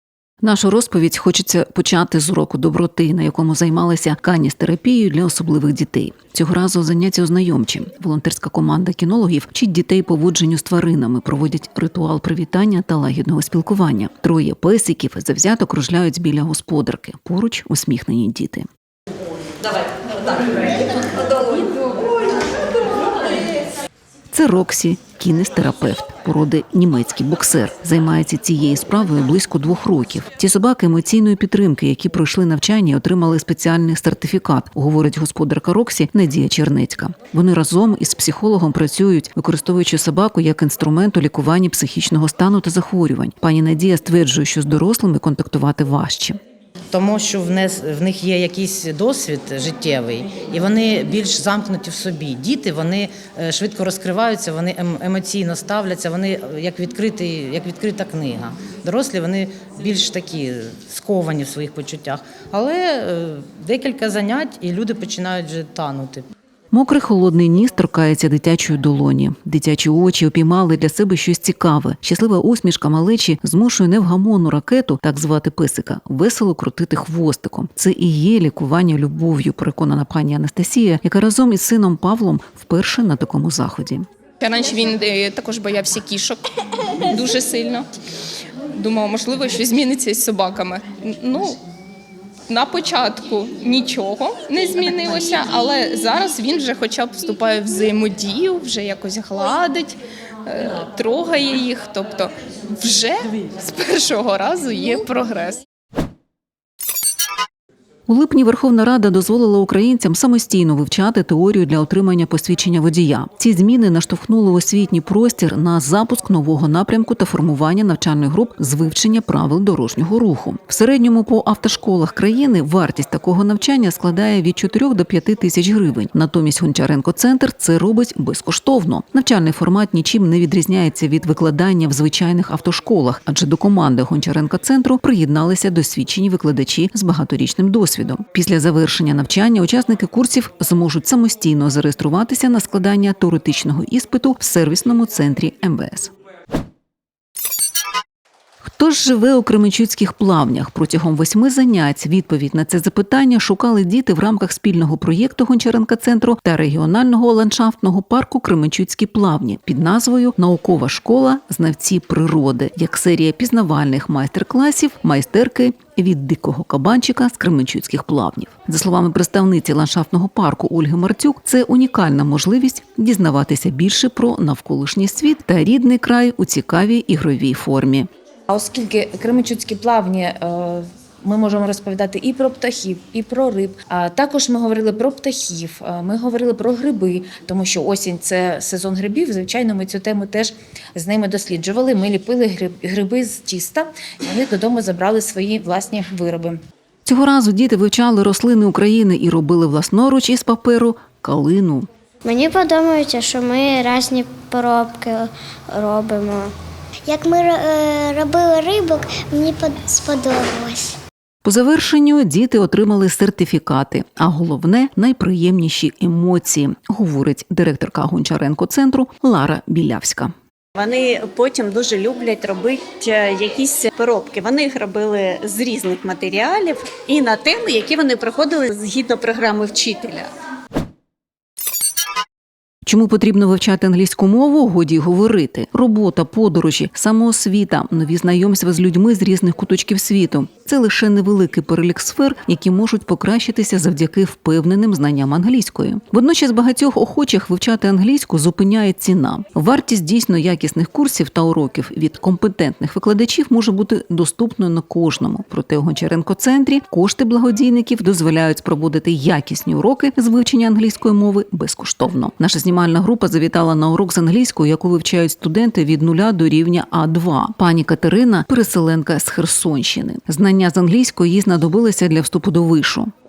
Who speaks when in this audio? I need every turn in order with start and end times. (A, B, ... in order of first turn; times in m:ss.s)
0:00.4-0:18.7 A
0:24.3-0:46.4 A
0:46.9-1:06.3 B
1:06.7-1:24.1 A
1:24.4-1:26.4 C
1:27.1-1:27.9 C
1:28.8-1:31.6 C
1:32.5-1:45.6 C
1:48.1-2:26.1 A
2:28.6-2:58.1 A
2:58.5-3:16.6 D
3:17.0-3:21.9 A
3:22.2-3:26.5 E
3:27.1-3:31.0 E
3:31.4-3:40.3 A
3:40.8-3:50.3 F
3:52.9-4:33.1 A